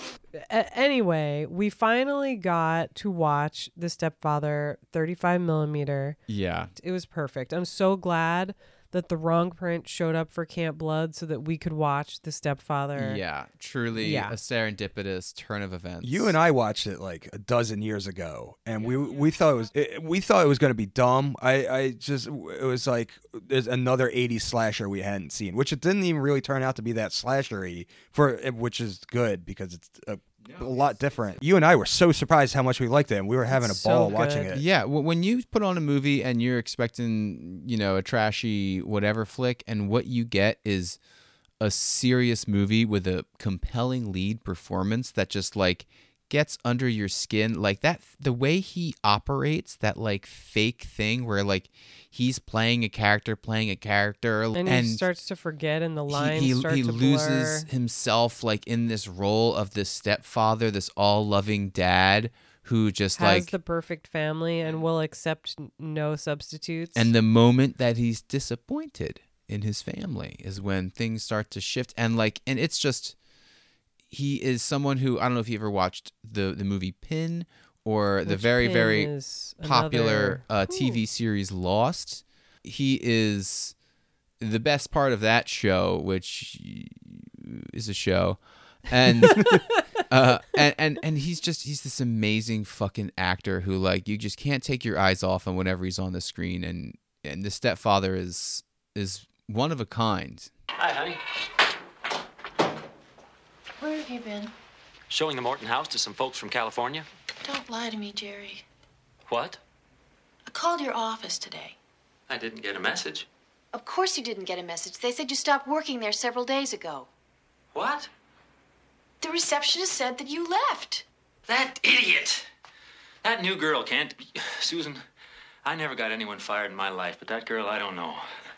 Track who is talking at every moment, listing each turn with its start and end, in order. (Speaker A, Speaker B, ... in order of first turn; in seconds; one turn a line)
Speaker A: 0.4-6.2
Speaker B: 6.3-6.7
Speaker A: 6.8-13.2
Speaker B: 12.9-16.4
Speaker A: 13.9-14.3
Speaker C: 16.0-34.6
Speaker A: 33.5-34.5
Speaker B: 34.5-41.0
Speaker B: 41.6-55.0
Speaker A: 54.5-57.6
Speaker B: 56.1-63.5
Speaker A: 63.2-67.1
Speaker B: 67.0-73.1
Speaker B: 74.1-83.7
Speaker A: 78.3-80.9
Speaker B: 84.4-100.5
Speaker D: 100.8-101.2
Speaker E: 103.8-104.5
Speaker D: 105.1-107.0
Speaker E: 107.4-108.6
Speaker D: 109.3-109.6
Speaker E: 110.5-111.8
Speaker D: 112.3-113.3
Speaker E: 113.7-117.1
Speaker D: 117.7-118.1
Speaker E: 119.2-121.0
Speaker D: 121.5-122.5
Speaker D: 123.2-125.0
Speaker D: 125.6-128.2